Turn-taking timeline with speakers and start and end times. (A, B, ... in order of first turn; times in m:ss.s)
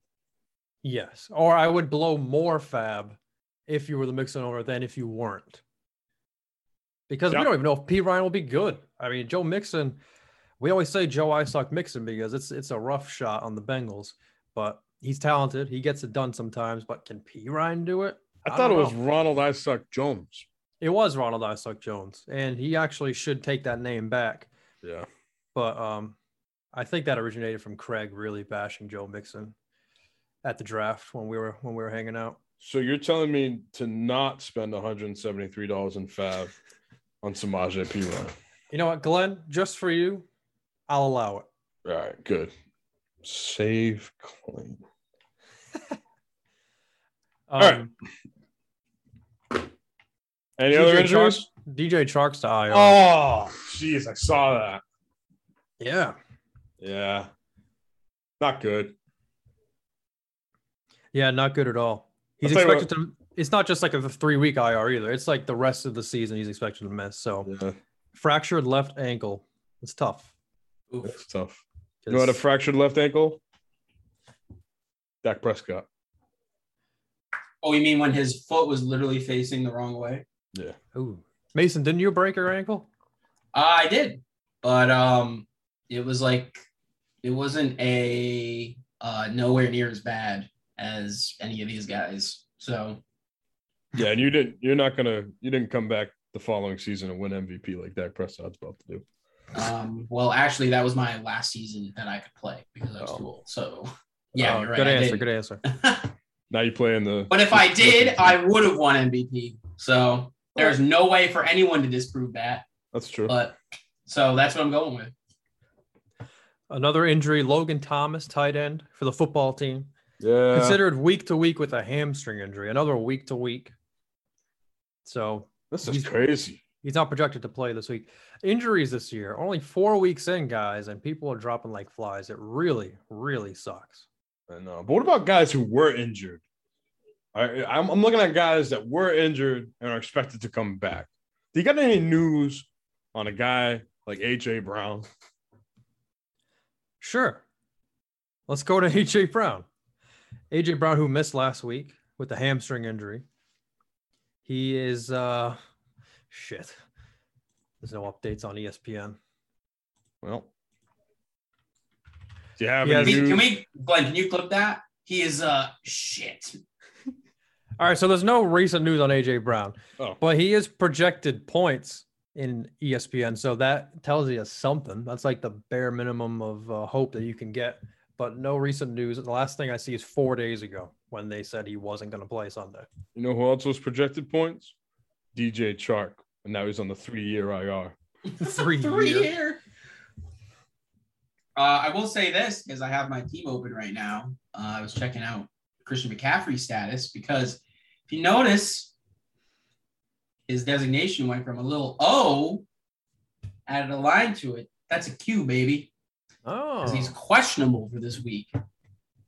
0:00.8-0:03.2 A
0:03.7-0:05.6 A
0:07.1-0:10.0 A
0:10.6-0:19.0 A
0:18.5-0:20.5 B
0:20.8-0:24.5 A
0:24.8-0:25.1 B
0:25.6-0:26.2 A
0:26.7-0:29.6 A
0:30.4-0:32.4 A
0:32.6-0:36.5 B
0:37.2-0:38.3 B
0:38.7-0:40.3 A
0:40.9-0:41.5 A
0:41.8-0:42.5 B
0:43.2-0:44.8 B
0:47.5-0:47.9 A
0:50.6-0:51.5 B
0:50.7-0:53.0 A
0:52.7-0:54.8 B
0:55.8-0:56.2 A
0:56.8-0:57.3 B
0:58.4-0:59.0 B
1:01.1-1:07.5 A
1:02.4-1:02.9 B
1:07.4-1:07.8 B
1:08.2-1:10.3 A
1:11.0-1:13.4 B
1:12.0-1:12.4 A
1:15.2-1:15.9 B
1:17.6-1:20.2 C
1:20.9-1:22.9 A
1:23.5-1:26.6 C
1:27.2-1:33.0 C
1:34.0-1:39.1 B
1:39.5-1:46.1 C
1:44.4-1:45.6 A
1:46.5-1:48.4 B
1:47.3-1:52.7 C
1:52.9-1:53.4 B
1:53.3-1:53.6 C
1:54.1-1:55.1 C
1:56.7-1:59.9 A
2:00.2-2:00.8 B
2:00.5-2:03.7 A
2:05.0-2:06.2 A
2:05.7-2:06.6 B
2:06.8-2:14.1 A
2:14.5-2:16.4 B
2:17.3-2:25.1 B
2:27.0-2:27.4 A
2:28.5-2:29.7 A
2:30.5-2:33.2 A
2:34.4-2:35.6 A
2:36.3-2:36.8 A
2:37.8-2:39.2 A
2:40.2-2:40.5 B
2:42.6-2:43.5 B
2:42.8-2:43.2 A
2:43.0-2:46.6 C
2:47.8-3:02.9 A
3:03.2-3:04.8 B
3:05.3-3:08.0 B
3:08.3-3:09.6 C
3:08.4-3:09.3 A
3:11.6-3:18.9 C
3:20.5-3:22.6 C
3:23.7-3:25.9 C
3:26.5-3:27.2 A
3:26.8-3:28.5 C